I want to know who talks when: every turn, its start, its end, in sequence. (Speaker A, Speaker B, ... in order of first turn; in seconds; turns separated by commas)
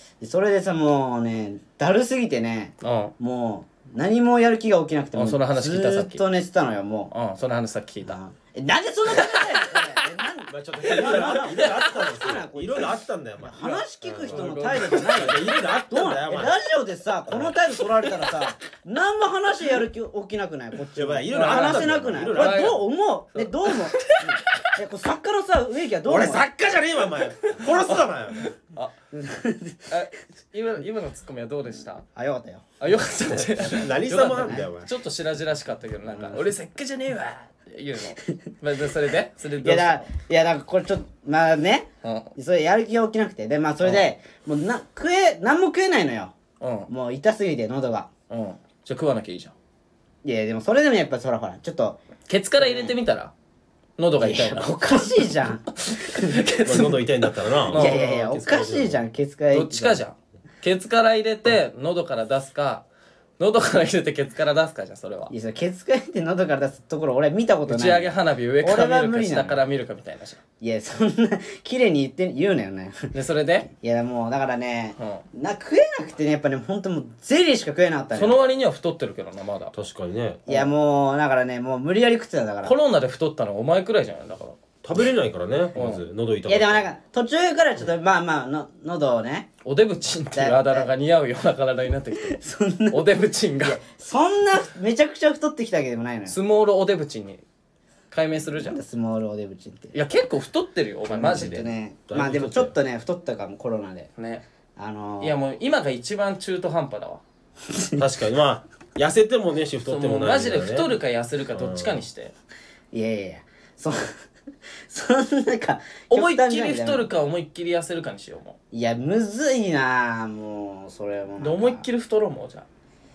Speaker A: 0.2-7.1, Speaker B: 2.8-3.1, Speaker B: 5.1-6.2, Speaker B: 7.1-8.2, Speaker A: 8.0-26.5, Speaker B: 9.1-10.0, Speaker C: 10.5-16.5, Speaker B: 10.8-11.8, Speaker B: 13.6-15.3, Speaker C: 17.3-17.5, Speaker C: 20.9-22.8, Speaker B: 21.3-24.7, Speaker C: 26.0-28.5, Speaker B: 27.4-28.9, Speaker A: 29.1-29.9, Speaker B: 29.9-32.0, Speaker A: 32.1-32.6, Speaker B: 32.8-40.1, Speaker C: 33.3-34.9, Speaker A: 34.3-34.6, Speaker A: 36.1-36.4, Speaker A: 39.6-46.3, Speaker B: 42.0-42.3, Speaker B: 46.6-46.9, Speaker A: 46.9-48.1, Speaker B: 48.3-49.5, Speaker A: 50.2-52.0, Speaker B: 52.3-53.3, Speaker A: 52.6-52.9, Speaker B: 54.0-55.2, Speaker A: 54.2-56.4, Speaker B: 55.8-58.1, Speaker C: 56.6-59.0, Speaker A: 57.7-60.0, Speaker B: 59.5-62.8, Speaker B: 63.4-65.3, Speaker A: 65.3-69.6, Speaker B: 67.7-70.4, Speaker A: 70.6-73.1, Speaker B: 73.1-73.7, Speaker A: 73.6-78.4, Speaker B: 75.0-75.2, Speaker B: 78.1-79.7, Speaker C: 79.7-80.4, Speaker A: 80.5-82.7, Speaker B: 82.6-84.6, Speaker C: 84.8-86.9, Speaker B: 85.8-86.0, Speaker A: 86.5-89.5, Speaker B: 89.6-93.8, Speaker A: 90.3-90.9, Speaker A: 92.2-93.1, Speaker A: 93.6-96.3, Speaker B: 96.3-97.4, Speaker B: 98.1-98.8, Speaker A: 98.6-99.9, Speaker B: 99.9-101.7, Speaker A: 101.1-104.1, Speaker C: 102.1-102.8, Speaker B: 104.2-104.4, Speaker A: 104.8-105.3, Speaker B: 105.2-107.2, Speaker A: 107.7-108.0, Speaker C: 108.0-110.9, Speaker B: 109.9-112.3, Speaker C: 111.5-112.0, Speaker A: 112.9-114.1, Speaker A: 114.9-117.1, Speaker B: 116.1-118.6, Speaker A: 118.7-121.8, Speaker B: 121.4-122.7